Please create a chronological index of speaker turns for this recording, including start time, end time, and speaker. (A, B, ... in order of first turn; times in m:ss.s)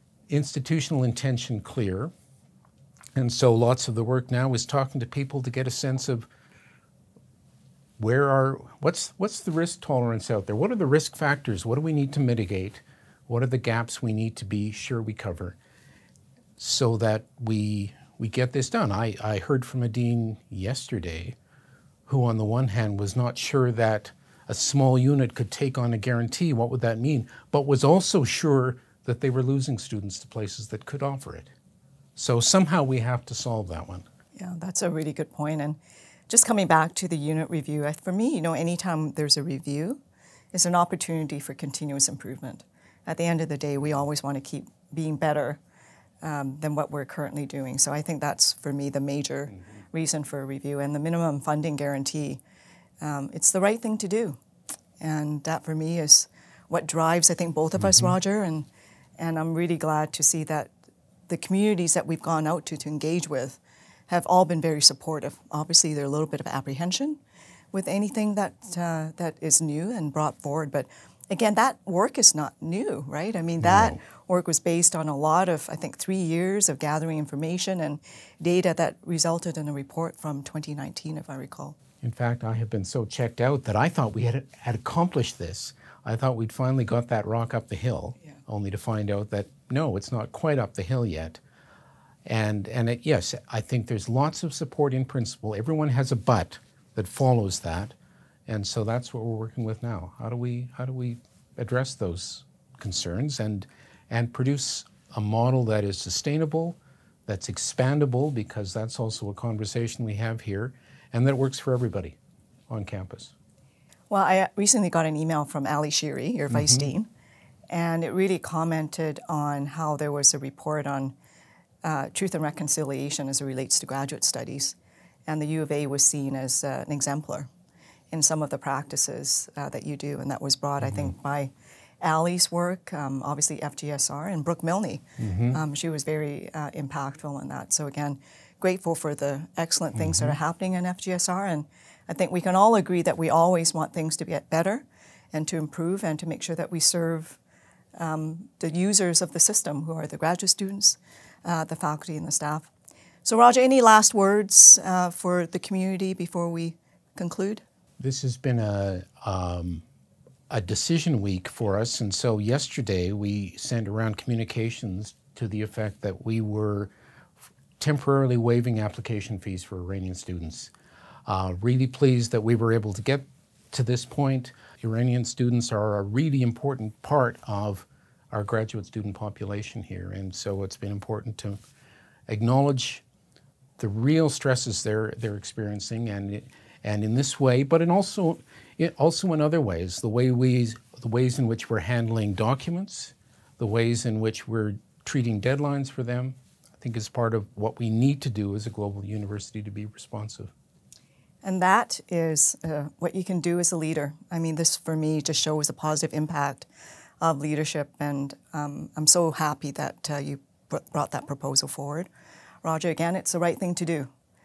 0:00.3-0:02.1 A
0:03.2-0:06.3 A
0:08.0-0:15.6 A
0:16.6-0:21.4 A
0:22.1-0:31.5 A
0:32.2-0:34.0 A
0:34.4-0:35.8 B
0:36.3-0:40.0 B
0:40.5-0:45.6 B
0:46.2-0:52.4 B
0:53.0-0:54.4 B
0:55.0-0:58.7 B
0:57.8-0:58.1 A
0:59.2-1:00.7 B
1:01.3-1:07.2 B
1:07.7-1:21.8 B
1:13.6-1:13.9 A
1:22.0-1:31.4 A
1:32.2-1:37.9 A
1:38.5-1:52.2 A
1:52.7-1:53.3 A
1:54.1-1:57.1 B
1:56.5-1:56.9 A
1:57.7-2:01.2 B
2:01.8-2:04.8 B
2:05.3-2:07.5 B
2:08.1-2:11.5 B
2:10.8-2:11.1 A
2:12.0-2:27.4 B
2:15.2-2:15.6 A
2:19.9-2:20.4 A
2:28.0-2:32.7 B
2:33.2-2:37.6 B
2:38.0-2:39.8 A
2:40.5-2:46.9 A
2:47.8-2:50.7 A
2:51.3-3:01.6 A
3:02.3-3:03.0 A
3:03.8-3:20.5 A
3:21.4-3:26.7 B
3:27.2-3:32.1 B
3:32.6-3:34.1 B